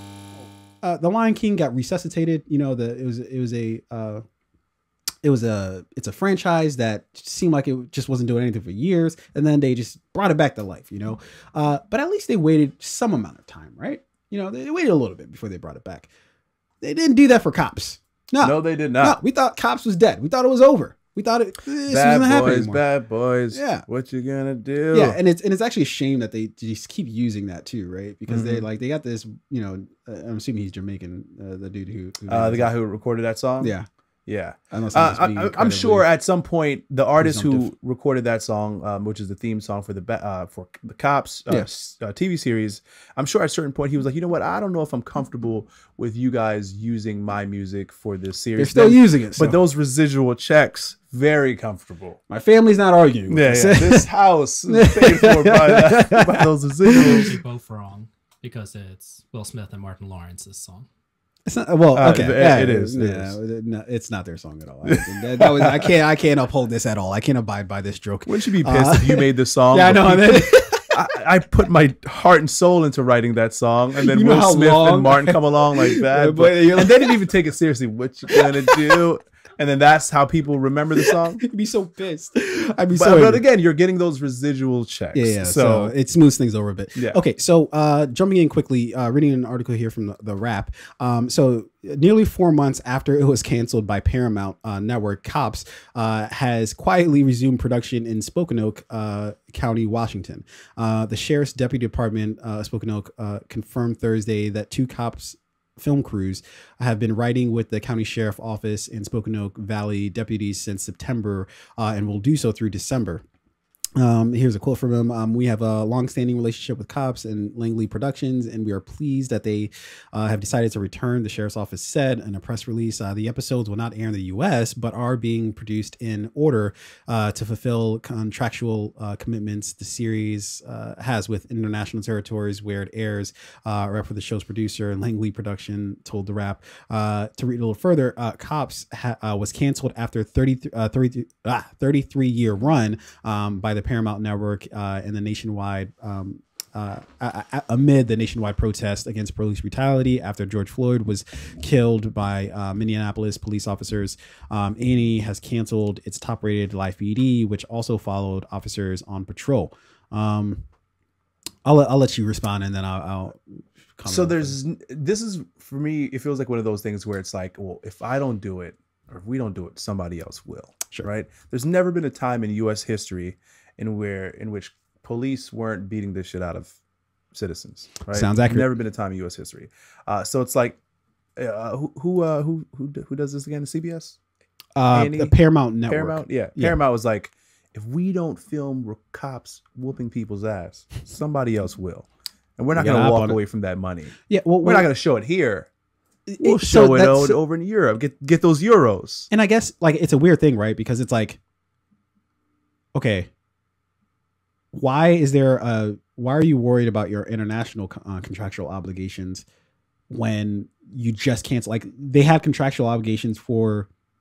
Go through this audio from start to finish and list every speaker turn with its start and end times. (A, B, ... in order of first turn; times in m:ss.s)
0:00.8-0:04.2 A
0:05.2-0:16.1 A
0:16.8-0:22.8 A
0:18.4-0:19.2 B
0:21.8-0:25.2 B
0:23.5-0:23.8 A
0:24.9-0:32.7 A
0:28.3-0:28.6 B
0:32.3-0:33.7 B
0:33.6-0:33.9 A
0:34.2-0:52.2 B
0:34.7-0:36.1 A
0:37.2-0:37.7 A
0:48.6-0:49.6 A
0:52.3-0:54.1 A
0:53.3-0:57.3 B
0:54.7-0:57.3 A
0:56.9-1:00.9 C
1:01.4-1:10.9 A
1:01.9-1:03.4 B
1:04.8-1:05.9 B
1:08.2-1:21.4 B
1:14.0-1:17.2 A
1:18.3-1:19.0 A
1:21.0-1:23.4 A
1:22.9-1:25.9 B
1:25.1-1:53.2 A
1:54.0-2:40.6 A
2:41.6-2:43.4 A
2:44.0-2:44.6 A
2:44.0-2:56.8 B
2:57.3-3:00.8 B
2:58.1-2:58.7 A
3:01.4-3:04.2 B
3:04.8-3:06.8 A
3:04.9-3:05.4 B
3:05.9-3:15.7 B
3:12.7-3:13.4 A
3:14.3-3:14.9 A
3:16.3-3:17.4 A
3:16.4-3:19.3 B
3:19.3-3:21.4 A
3:22.9-3:23.3 A
3:24.7-3:29.4 A
3:30.1-3:33.9 A